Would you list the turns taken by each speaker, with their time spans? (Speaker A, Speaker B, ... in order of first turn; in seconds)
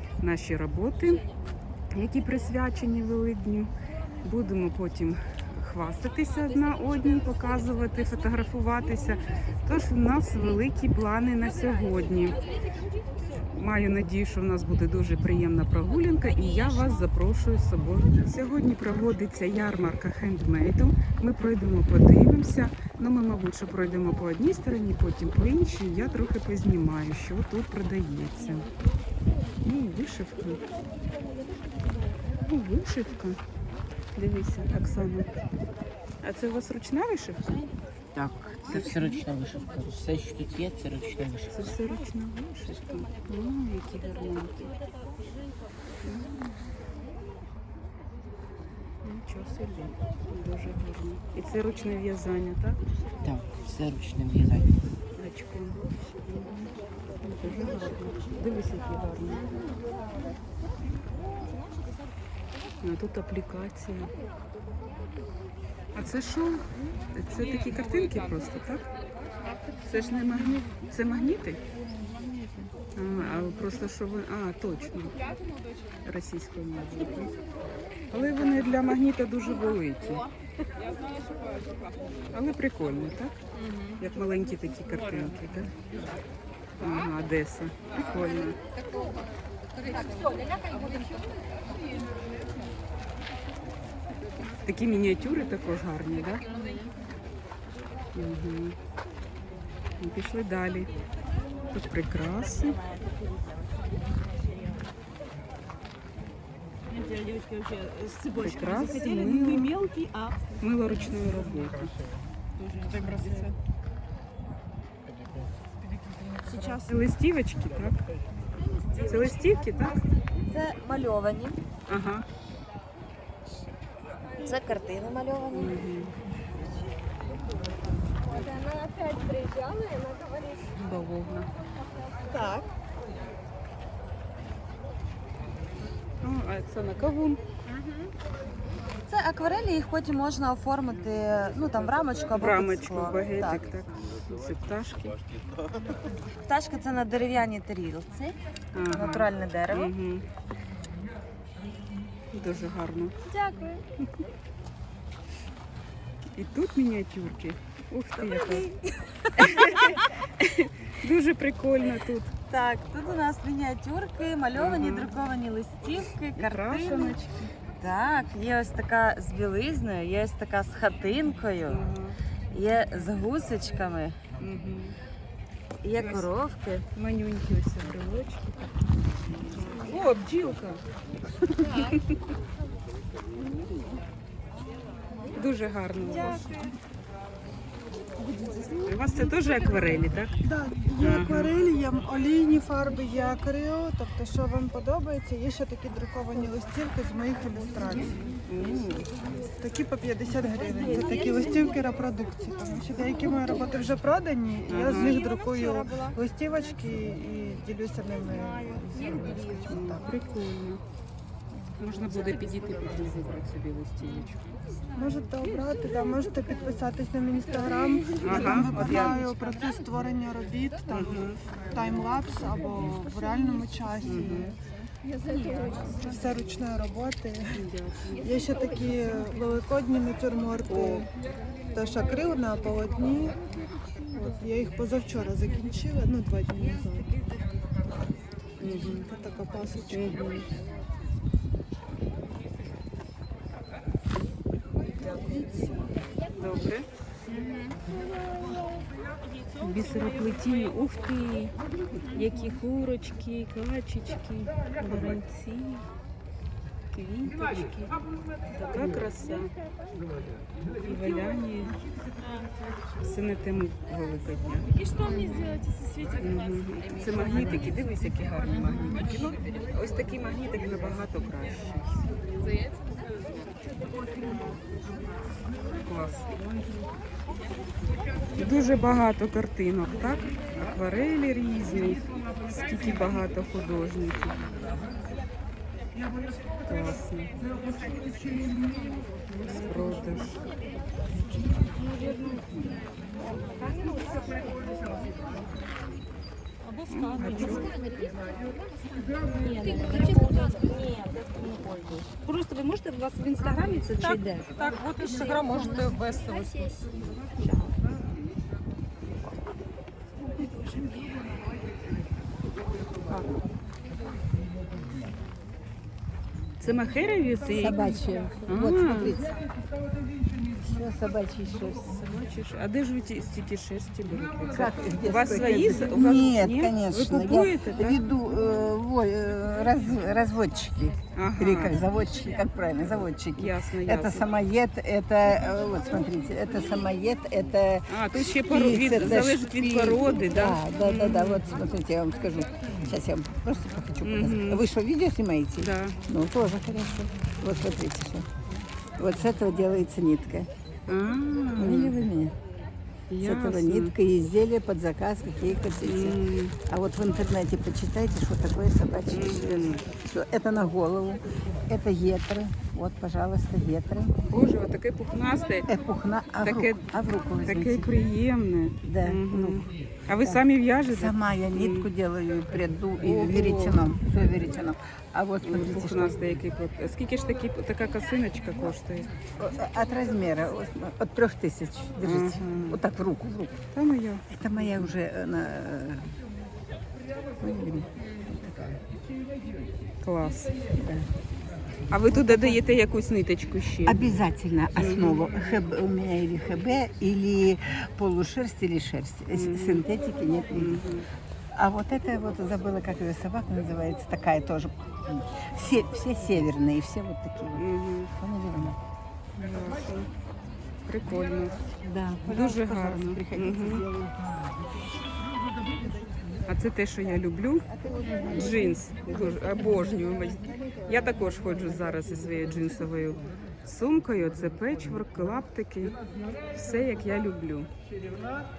Speaker A: 0.2-1.2, 1.9-3.7, 4.2-12.4, 13.3-28.7, 29.6-30.6, 32.4-33.4, 34.1-35.3, 36.2-37.5, 41.5-44.7, 46.0-46.5, 49.0-52.8, 55.1-56.7, 57.2-59.5, 62.8-64.1, 65.9-68.9, 69.8-71.6, 72.9-75.3, 76.0-77.3, 78.1-80.3, 82.3-85.7, 86.8-88.6, 94.6-96.5, 98.1-98.8, 100.0-100.9, 101.7-102.8, 108.3-109.7, 110.6-111.9, 116.8-118.0, 119.0-120.0, 121.9-122.2, 125.5-126.1, 130.7-131.5, 136.2-137.4, 142.4-145.2, 148.7-150.2, 152.3-153.1, 156.3-158.7, 159.4-162.3, 164.6-165.2, 166.4-167.4, 171.7-172.2, 174.4-175.0, 176.0-176.3, 176.9-178.7, 179.5-180.8, 181.4-182.1, 185.3-186.5, 188.8-190.3, 191.0-191.5, 198.4-199.1, 204.7-205.2, 209.7-210.8, 211.8-214.4, 218.2-219.3, 220.9-221.4, 224.1-224.6, 225.2-225.9, 227.5-228.3, 230.7-231.0, 238.6-239.1, 239.9-240.5, 246.3-246.8, 249.6-255.9, 256.9-259.5, 260.8-261.8, 263.0-264.8, 266.2-272.1, 275.8-276.3, 278.3-284.5, 286.6-287.3, 289.4-290.4, 296.9-297.7, 305.6-306.4, 316.6-317.8, 318.5-319.1, 321.8-328.0, 331.1-331.8, 333.4-334.3, 337.9-341.5, 344.0-344.7, 345.6-346.0, 350.9-351.9, 353.1-353.9, 355.8-356.6, 359.1-359.9, 364.3-365.7, 366.4-366.9, 367.4-371.9, 373.0-373.8, 375.4-379.1, 382.0-382.8, 383.7-384.9, 390.0-390.5, 391.9-394.2, 394.8-395.4, 399.3-399.9, 400.5-401.1, 407.5-408.1, 409.4-410.1, 410.8-411.6, 412.2-413.9, 416.5-417.7, 418.2-427.7
Speaker B: 38.1-41.6, 53.2-54.8
Speaker C: 90.3-90.9, 107.0-110.4, 129.7-129.9, 262.2-262.5, 264.8-266.6, 268.6-268.9, 291.8-292.2, 299.4-301.1, 304.1-304.4
Speaker D: 106.9-110.3, 200.7-201.5, 291.8-292.3, 299.5-300.3, 302.3-306.2
Speaker E: 108.9-109.2, 112.9-113.5, 116.1-116.8, 190.4-198.3, 199.5-210.1, 214.9-224.5, 225.8-227.6, 228.2-231.1, 231.7-233.4, 234.1-237.2, 238.9-240.2, 305.1-305.9
Speaker F: 120.4-121.6, 124.4-125.8, 128.7-130.3, 132.3-132.7, 139.1-143.7, 146.5-149.9, 153.3-153.8, 158.3-158.9, 162.5-167.2, 167.8-171.9, 172.5-174.2, 175.8-176.9, 302.9-303.8, 304.6-305.1
Speaker G: 317.5-319.4, 320.6-321.9, 324.5-348.3, 349.0-350.5, 351.6-352.4, 353.2-364.1, 365.7-367.9, 368.8-376.4, 379.4-383.5, 384.3-386.1, 387.4-388.5, 390.7-391.1, 392.1-392.6, 393.9-400.9, 401.5-408.8, 411.8-414.6, 417.8-420.5